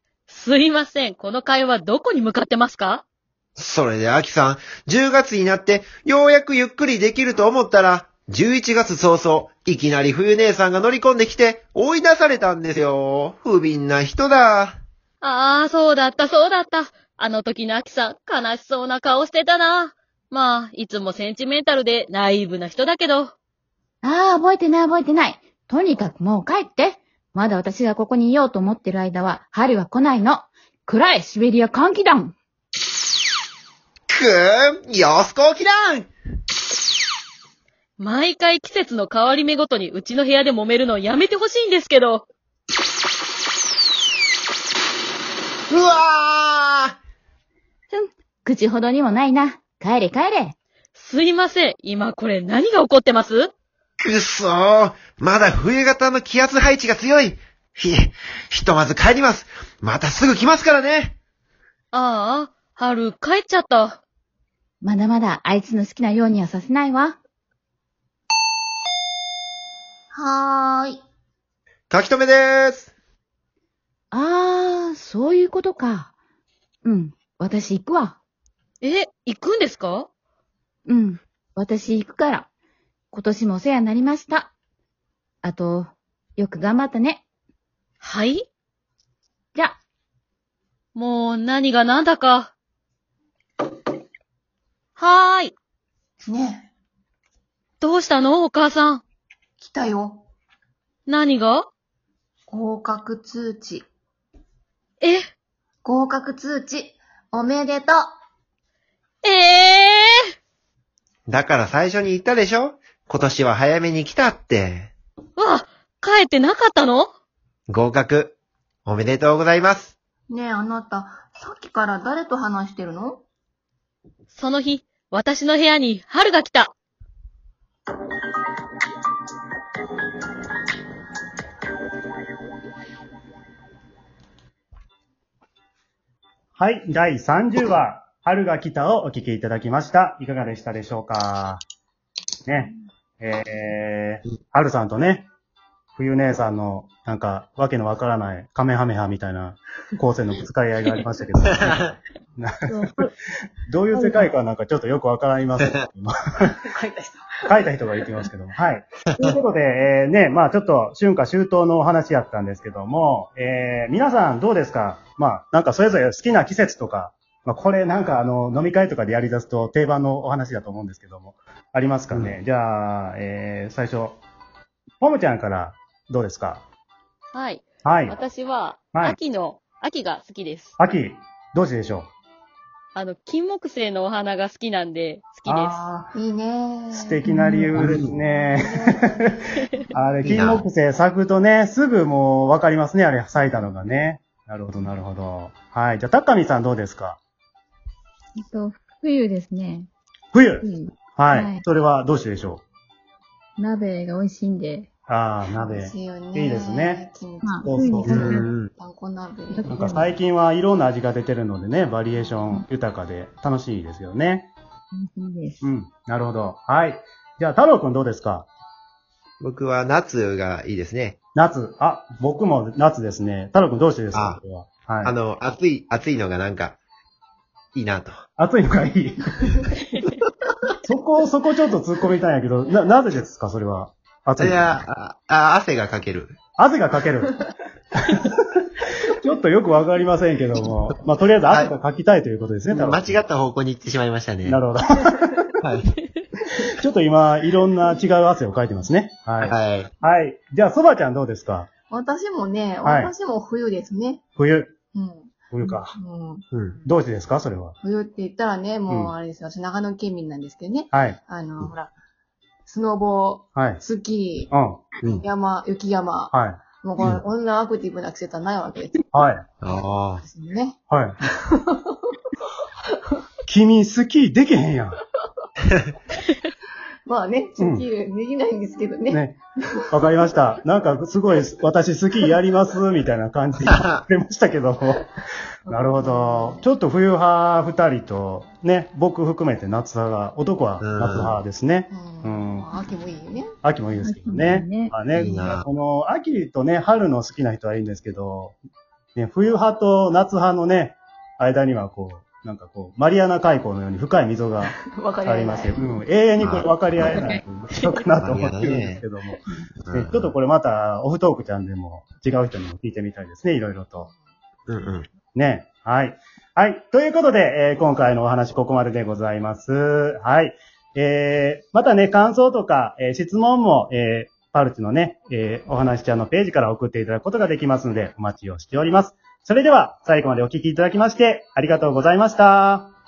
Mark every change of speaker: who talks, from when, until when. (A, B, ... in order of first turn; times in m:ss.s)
0:00.3-0:03.0 A
0:03.6-0:14.8 B
0:15.2-0:23.3 A
0:24.0-0:32.4 C
0:34.1-0:36.1 B
0:38.0-0:42.2 A
0:45.7-0:46.9 B
0:47.9-0:50.6 C
0:50.9-0:53.5 A
0:54.0-1:01.2 B
1:01.9-1:04.0 A
1:04.8-1:07.2 C
1:10.1-1:11.0 D
1:11.9-1:12.9 B
1:14.1-1:16.1 C
1:16.8-1:18.2 C
1:18.8-1:20.1 A
1:20.9-1:22.5 C
1:23.1-1:24.5 C
1:25.4-1:27.2 C
1:28.0-1:28.4 A
1:30.9-1:32.5 A
1:35.0-1:35.6 A
1:36.2-1:36.7 D
1:37.8-1:39.0 A
1:39.6-1:40.2 D
1:41.1-1:41.7 A
1:42.5-1:43.9 D
1:45.0-1:45.3 A
1:45.8-1:48.0 D
1:49.2-1:50.1 A
1:51.3-1:54.9 B
1:55.4-1:57.1 A
1:57.7-1:59.9 B
2:00.3-2:03.2 D
2:04.3-2:06.7 A
2:16.5-2:21.6 E
2:22.5-2:25.2 E
2:26.0-2:32.8 E
2:33.7-2:36.5 E
2:36.7-2:37.2 D
2:37.5-2:54.2 E
2:55.0-2:56.6 E
2:57.3-3:00.7 A
2:57.8-2:58.1 E
3:00.8-3:02.1 E
3:03.0-3:05.8 A
3:05.5-3:05.9 E
3:05.9-3:07.4 D
3:06.9-3:09.2 E
3:07.8-3:08.1 B
3:08.6-3:09.5 D
3:09.9-3:17.2 E
3:10.2-3:10.6 B
3:18.4-3:19.9 C
3:20.3-3:22.6 E
3:20.6-3:21.6 C
3:23.6-3:24.9 C
3:25.1-3:27.0 E
3:25.5-3:29.7 D
3:27.4-3:28.4 C
3:27.6-3:28.4 E
3:28.1-3:28.7 B
3:29.5-3:30.1 C
3:29.7-3:34.5 E
3:34.9-3:35.6 C
3:35.6-3:38.5 E
3:39.4-3:41.2 B
3:41.4-3:45.1 E
3:44.1-3:44.4 B
3:45.0-3:46.8 B
3:47.8-3:48.2 B
3:48.4-3:49.6 E
3:50.8-3:54.7 E
3:54.4-3:56.4 B
3:56.6-3:57.4 E
3:58.0-4:03.2 E
4:02.7-4:04.6 B
4:04.4-4:05.4 E
4:05.6-4:05.9 B
4:06.6-4:11.7 E
4:09.4-4:09.9 B
4:11.9-4:14.2 D
4:12.8-4:13.1 E
4:14.4-4:14.8 E
4:14.9-4:15.3 D
4:15.5-4:15.9 E
4:15.9-4:16.4 D
4:16.5-4:16.8 B
4:16.9-4:17.8 E
4:17.8-4:21.9 D
4:20.9-4:21.2 E
4:22.6-4:24.5 D
4:23.5-4:23.8 E
4:24.5-4:24.8 E
4:25.2-4:29.0 D
4:26.3-4:26.6 E
4:29.1-4:29.4 E
4:29.6-4:30.2 B
4:30.2-4:30.8 D
4:30.9-4:31.2 E
4:31.4-4:32.1 D
4:33.5-4:35.0 E
4:37.0-4:39.2 D
4:37.6-4:37.8 E
4:39.1-4:39.4 E
4:39.9-4:45.1 E
4:45.7-4:46.5 D
4:45.7-4:52.6 E
4:50.8-4:51.4 B
4:51.9-4:53.5 D
4:53.6-4:58.6 E
4:54.0-4:54.9 C
4:55.2-4:55.6 B
4:59.1-5:14.1 E
5:04.9-5:05.8 D
5:06.4-5:07.0 B
5:08.2-5:09.0 B
5:09.8-5:10.3 B
5:14.7-5:15.1 B
5:15.4-5:32.9 E